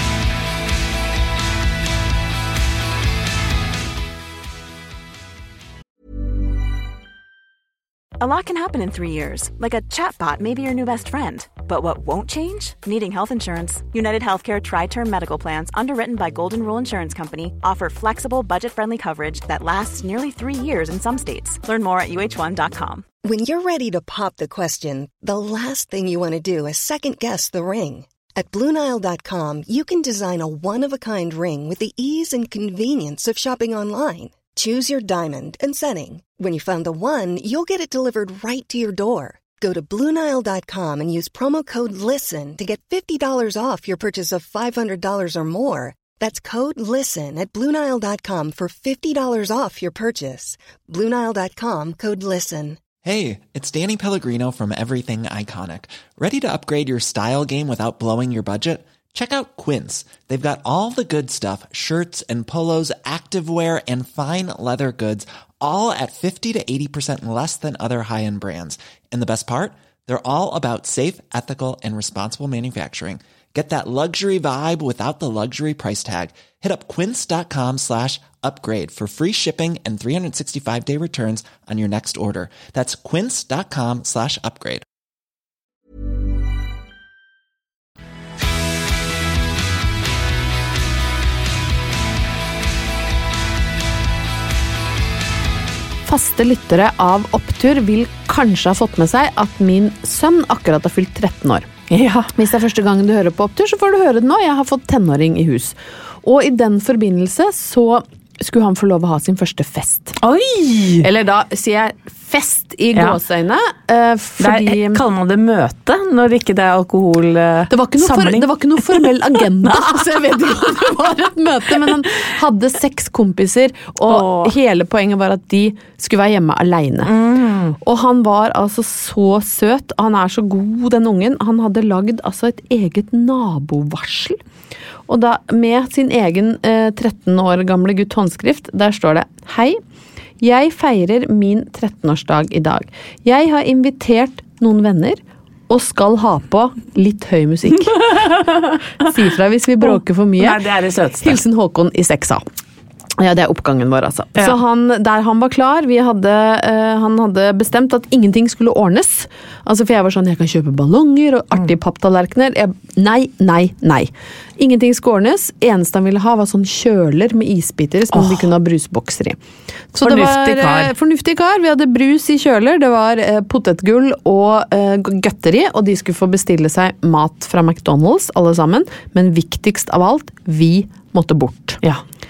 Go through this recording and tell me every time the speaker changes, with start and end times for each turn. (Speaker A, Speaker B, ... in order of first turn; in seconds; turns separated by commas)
Speaker A: 8.2-23.0, Speaker B: 23.2-52.8, Speaker C: 53.0-84.8, Speaker D: 96.0-101.7, Speaker E: 101.9-102.3, Speaker D: 102.3-110.2, Speaker E: 110.2-111.1, Speaker D: 111.0-115.0, Speaker E: 112.9-113.2, Speaker E: 114.4-121.0, Speaker D: 117.7-127.1, Speaker E: 124.1-124.5, Speaker E: 127.0-127.8, Speaker D: 127.8-134.4, Speaker D: 135.1-139.8, Speaker D: 140.4-148.1, Speaker E: 147.9-149.1, Speaker D: 149.0-150.6, Speaker E: 149.8-151.4, Speaker D: 151.2-152.4, Speaker D: 153.2-169.4, Speaker E: 168.1-168.5, Speaker D: 169.9-181.8, Speaker E: 170.0-170.9